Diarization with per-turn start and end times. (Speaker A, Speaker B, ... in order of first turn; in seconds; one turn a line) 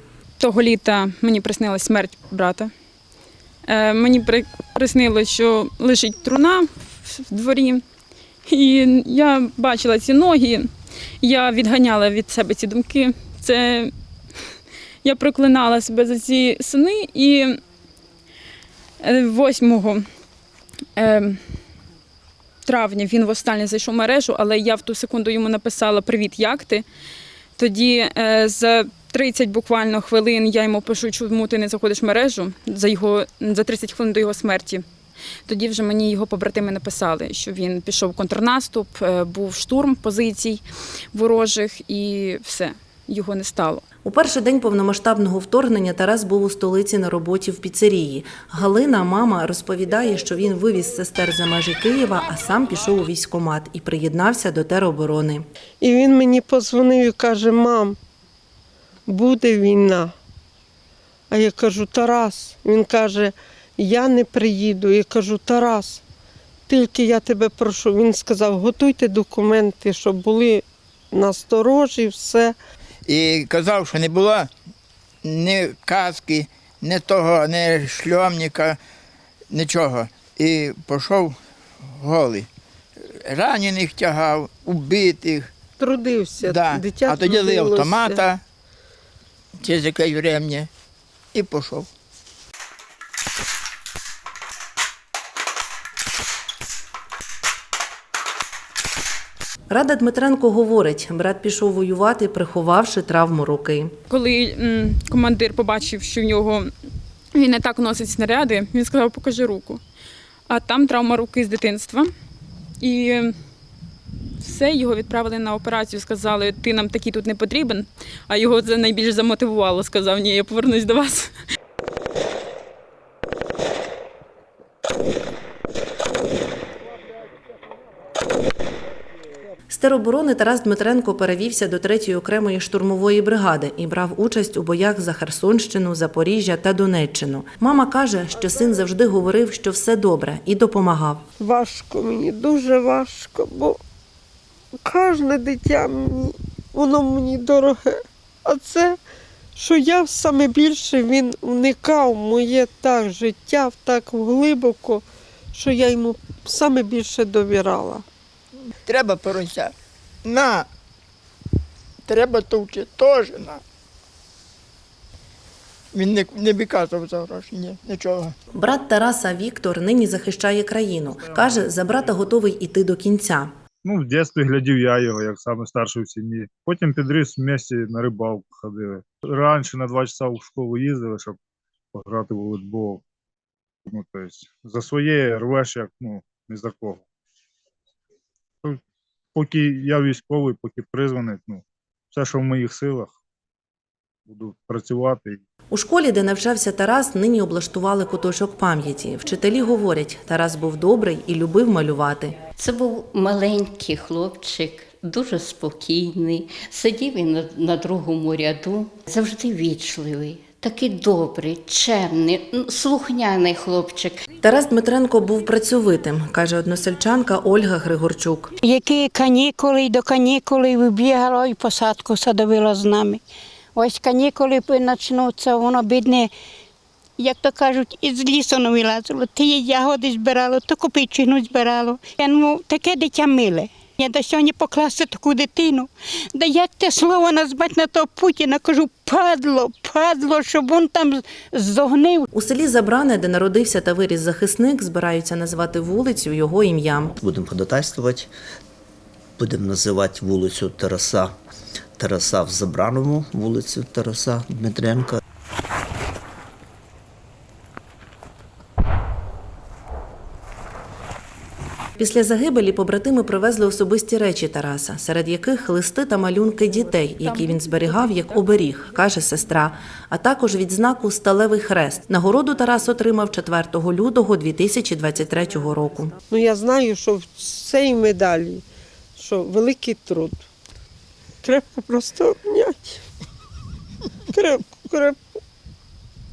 Speaker A: 0.4-2.7
Speaker A: 3.6-7.8
Speaker A: 8.5-10.7
Speaker A: 11.2-13.9
Speaker A: 15.0-17.6
Speaker A: 19.0-20.0
Speaker A: 20.9-21.4
Speaker A: 22.6-26.8
Speaker A: 27.6-34.8
Speaker A: 35.5-43.8
Speaker B: 44.0-55.4
Speaker C: 55.8-58.0
Speaker C: 59.1-60.1
Speaker C: 61.3-66.0
Speaker C: 66.7-72.5
Speaker D: 73.1-74.5
Speaker D: 75.2-78.8
Speaker D: 79.5-82.5
Speaker D: 83.2-85.5
Speaker C: 85.8-88.2
Speaker D: 86.4-88.4
Speaker D: 89.6-90.7
Speaker D: 91.3-91.9
Speaker B: 99.7-103.9
Speaker A: 104.1-106.7
Speaker A: 107.3-109.8
Speaker A: 110.5-112.1
Speaker A: 112.8-113.3
Speaker A: 114.4-121.3
Speaker B: 129.7-141.2
Speaker C: 141.4-143.8
Speaker C: 144.8-149.0
Speaker C: 149.6-158.0
Speaker D: 158.8-159.7
Speaker D: 160.2-160.7
Speaker D: 162.1-163.6
Speaker D: 165.9-168.3
Speaker B: 168.6-173.5
Speaker E: 171.1-171.7
Speaker E: 173.8-181.4
Speaker E: 181.9-183.0
Speaker E: 183.8-187.0
Speaker E: 189.3-193.1
Speaker E: 194.2-195.4
Speaker B: 195.7-202.4
Speaker F: 202.6-214.2
Speaker B: 214.4-218.5
Speaker G: 218.6-223.2
Speaker G: 223.7-226.3
Speaker G: 227.2-242.2
Speaker B: 242.3-247.1
Speaker H: 247.2-248.3
Speaker H: 249.4-251.3
Speaker H: 252.0-255.2
Speaker B: 262.0-276.1
Speaker C: 276.3-278.6
Speaker C: 279.2-280.5
Speaker C: 281.4-283.0
Speaker C: 284.3-285.4